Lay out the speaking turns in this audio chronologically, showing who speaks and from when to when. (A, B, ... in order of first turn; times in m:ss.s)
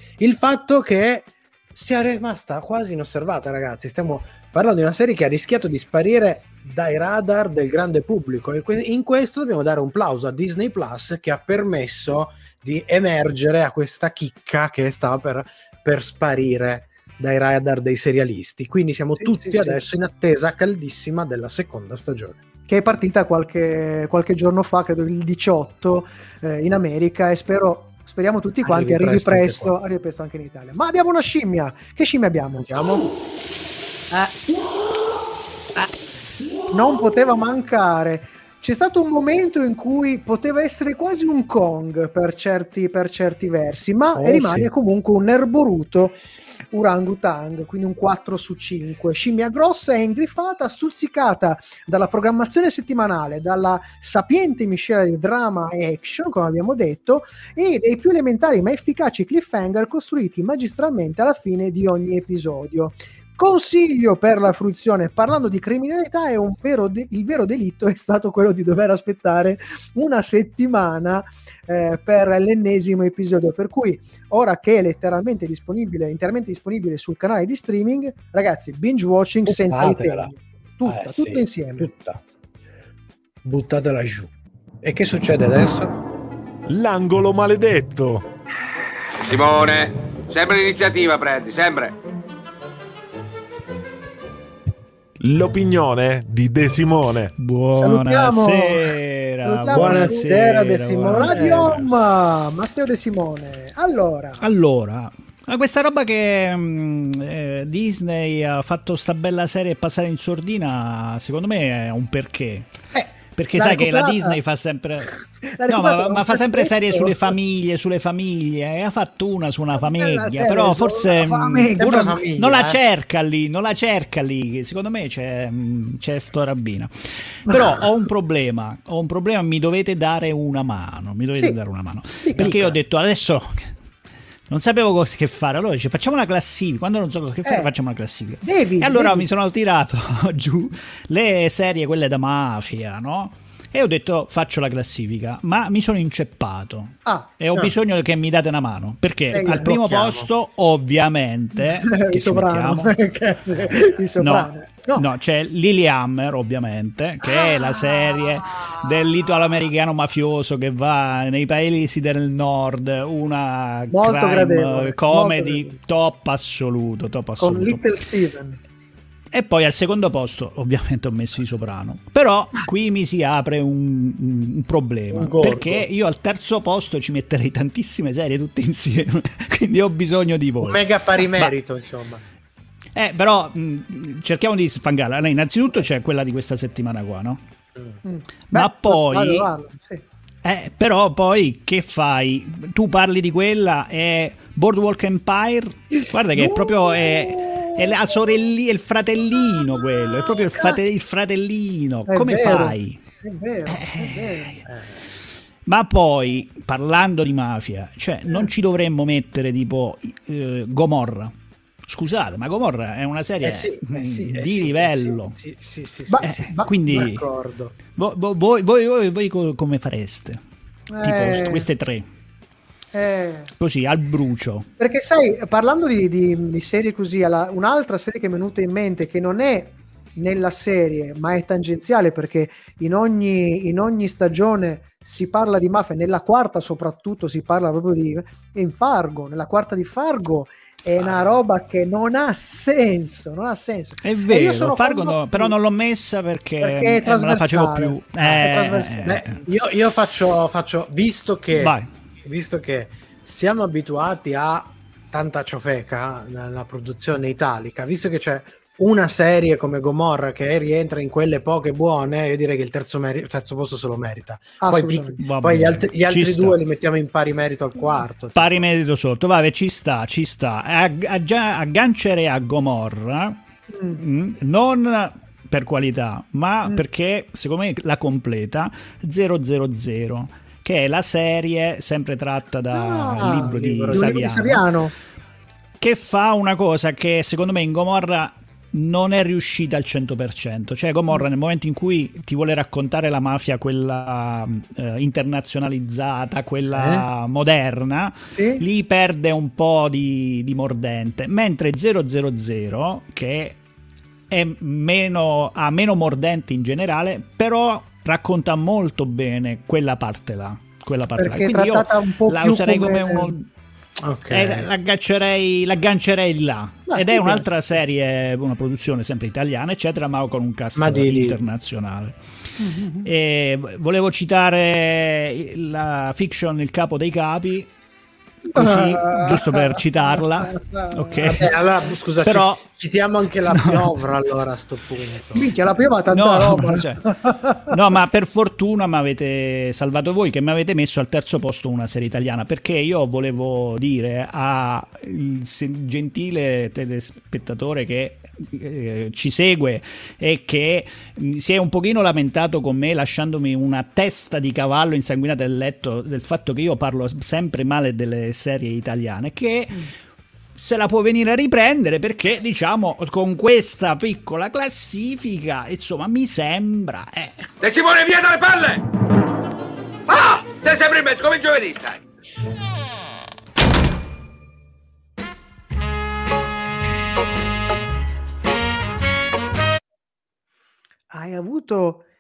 0:00.2-0:22.4 A
0:19.2-0:19.8 B
0:22.7-0:32.8 B
0:28.6-0:29.7 A
0:32.6-0:33.1 A
0:34.1-0:34.7 B
0:36.7-0:46.2 B
0:44.1-0:44.7 A
0:46.7-1:21.9 B
1:19.4-1:20.3 A
1:20.8-1:22.2 A
1:23.4-1:24.3 A
1:24.8-1:26.0 A
1:26.7-1:28.2 C
1:29.2-1:31.9 D
1:35.2-1:37.3 C
1:37.4-1:41.9 E
1:37.7-1:40.4 B
1:39.7-1:41.8 A
1:41.1-1:44.4 B
1:44.4-1:52.7 E
1:52.9-1:54.4 B
1:53.4-1:55.1 E
1:55.5-1:57.2 B
1:55.7-2:13.7 E
1:59.8-2:02.2 B
2:01.7-2:02.8 A
2:12.2-2:12.6 B
2:12.4-2:12.8 A
2:14.5-2:32.9 E
2:17.4-2:17.7 B
2:18.4-2:19.3 B
2:27.0-2:27.3 B
2:29.3-2:29.7 B
2:29.5-2:30.3 A
2:31.6-2:35.1 B
2:34.2-2:47.9 E
2:37.3-2:38.2 B
2:43.9-2:45.8 B
2:47.4-2:48.6 B
2:49.3-3:01.5 E
2:55.1-2:55.9 A
3:00.6-3:02.2 A
3:02.9-3:07.4 E
3:08.0-3:10.0 B
3:08.5-3:09.5 E
3:10.4-3:23.0 E
3:16.4-3:18.2 B
3:20.3-3:20.8 B
3:22.1-3:24.6 B
3:23.7-3:24.6 E
3:24.6-3:25.0 A
3:25.6-3:31.3 E
3:31.9-3:35.3 E
3:33.4-3:37.8 A
3:36.1-3:37.0 B
3:36.2-3:37.2 E
3:38.0-3:40.4 E
3:40.9-3:41.7 B
3:41.0-3:42.1 E
3:42.9-3:43.5 B
3:43.6-3:44.7 E
3:44.8-4:05.6 B
4:01.0-4:01.3 A
4:04.0-4:09.4 E
4:06.6-4:09.3 B
4:09.0-4:28.6 A
4:11.5-4:11.9 E
4:24.6-4:25.2 B
4:25.2-4:26.6 E
4:28.3-4:33.4 E
4:33.7-4:34.0 B
4:33.9-4:44.6 E
4:42.7-4:44.9 B
4:43.3-4:44.3 A
4:45.8-5:03.6 E
4:56.7-4:57.0 A
4:58.4-4:58.6 B
5:04.3-5:13.4 E
5:11.2-5:13.3 B
5:14.0-5:14.7 A
5:14.3-5:22.2 E
5:16.9-5:17.4 B
5:20.8-5:21.4 A
5:22.6-5:23.1 B
5:23.0-5:27.7 E
5:28.5-5:31.2 B
5:28.5-5:31.5 E
5:31.2-5:35.5 A
5:32.2-5:32.6 E
5:33.5-5:33.9 E
5:35.3-5:37.8 B
5:36.1-5:37.0 E
5:37.7-5:59.9 E
6:00.6-6:07.5 E
6:07.6-6:08.8 D
6:10.1-6:12.0 D
6:21.1-6:22.0 B